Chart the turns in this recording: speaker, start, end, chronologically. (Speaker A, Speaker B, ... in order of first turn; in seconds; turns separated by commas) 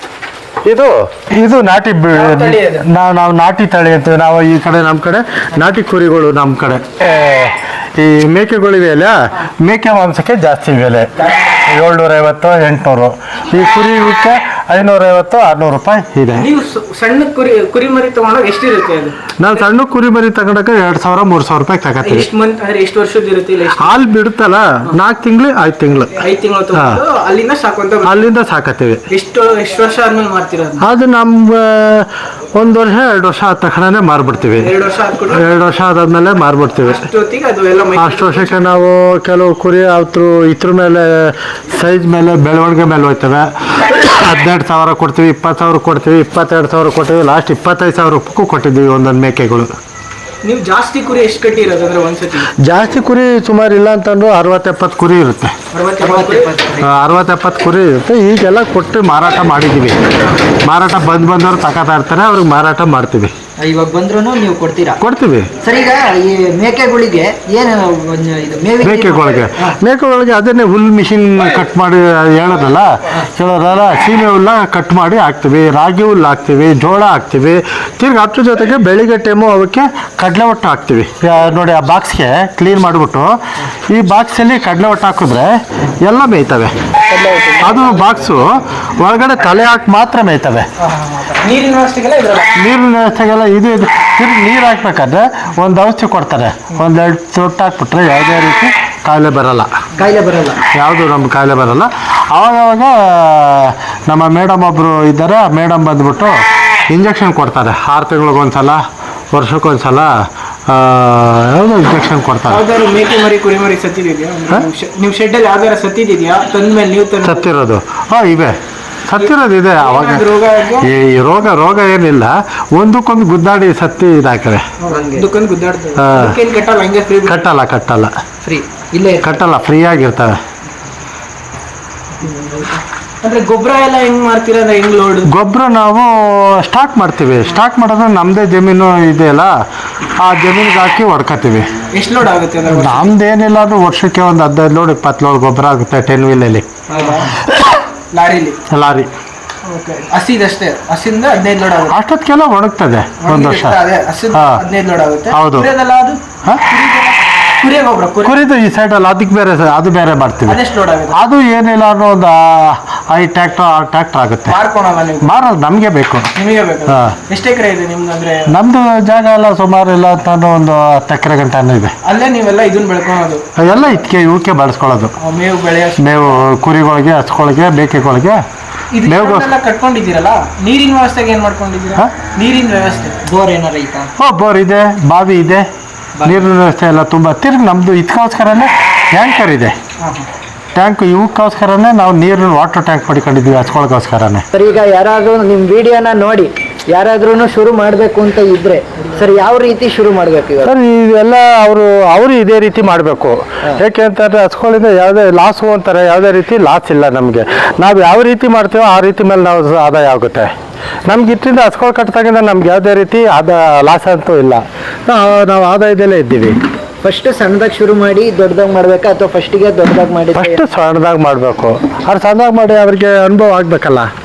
Speaker A: 0.6-16.5, Speaker B: 2.1-2.9, Speaker B: 16.4-19.4, Speaker A: 19.4-22.3, Speaker B: 22.0-24.0, Speaker A: 23.8-26.2, Speaker B: 26.1-28.2, Speaker A: 26.7-27.0, Speaker A: 28.0-29.0, Speaker B: 29.1-30.8, Speaker A: 30.8-34.7, Speaker B: 34.5-35.6, Speaker A: 35.3-37.0, Speaker B: 36.8-38.8, Speaker A: 37.9-49.7, Speaker B: 50.4-52.5, Speaker A: 52.5-55.5, Speaker B: 55.7-56.5, Speaker C: 56.0-56.9, Speaker A: 56.8-63.3, Speaker C: 63.6-65.0, Speaker A: 65.0-65.5, Speaker C: 65.6-69.7, Speaker A: 68.8-83.4, Speaker A: 83.9-86.7, Speaker B: 87.1-88.3, Speaker A: 87.6-90.7, Speaker B: 90.8-92.5, Speaker A: 92.5-99.7, Speaker C: 100.0-100.6, Speaker A: 100.7-112.7, Speaker B: 112.5-117.5, Speaker A: 117.2-124.7, Speaker B: 119.2-120.9, Speaker B: 124.8-127.4, Speaker C: 124.9-125.3, Speaker A: 126.0-126.3, Speaker A: 127.2-128.1, Speaker C: 128.4-129.4, Speaker A: 129.2-130.4, Speaker B: 132.2-132.7, Speaker B: 133.2-135.3, Speaker A: 135.2-139.5, Speaker A: 140.2-141.7, Speaker B: 141.9-143.1, Speaker A: 142.7-146.8, Speaker B: 146.9-147.3, Speaker A: 147.5-147.7, Speaker B: 148.1-148.6, Speaker A: 148.7-149.1, Speaker B: 149.6-151.9, Speaker A: 151.8-154.6, Speaker B: 153.2-158.3, Speaker A: 155.3-155.7, Speaker A: 158.2-160.6, Speaker B: 160.5-161.2, Speaker A: 161.1-164.6, Speaker B: 164.5-165.4, Speaker A: 165.2-166.3, Speaker B: 166.3-168.5, Speaker A: 166.9-167.2, Speaker A: 168.5-171.9, Speaker B: 172.0-174.0, Speaker A: 173.6-175.1, Speaker B: 175.2-176.5, Speaker A: 176.0-178.4, Speaker B: 178.9-183.2, Speaker A: 179.0-179.5, Speaker C: 183.2-184.1, Speaker A: 184.2-185.7, Speaker A: 186.2-189.8, Speaker B: 190.0-190.3, Speaker A: 190.7-194.4, Speaker C: 194.5-200.7, Speaker A: 200.6-210.5, Speaker A: 211.1-216.6, Speaker C: 217.0-220.6, Speaker A: 220.3-224.1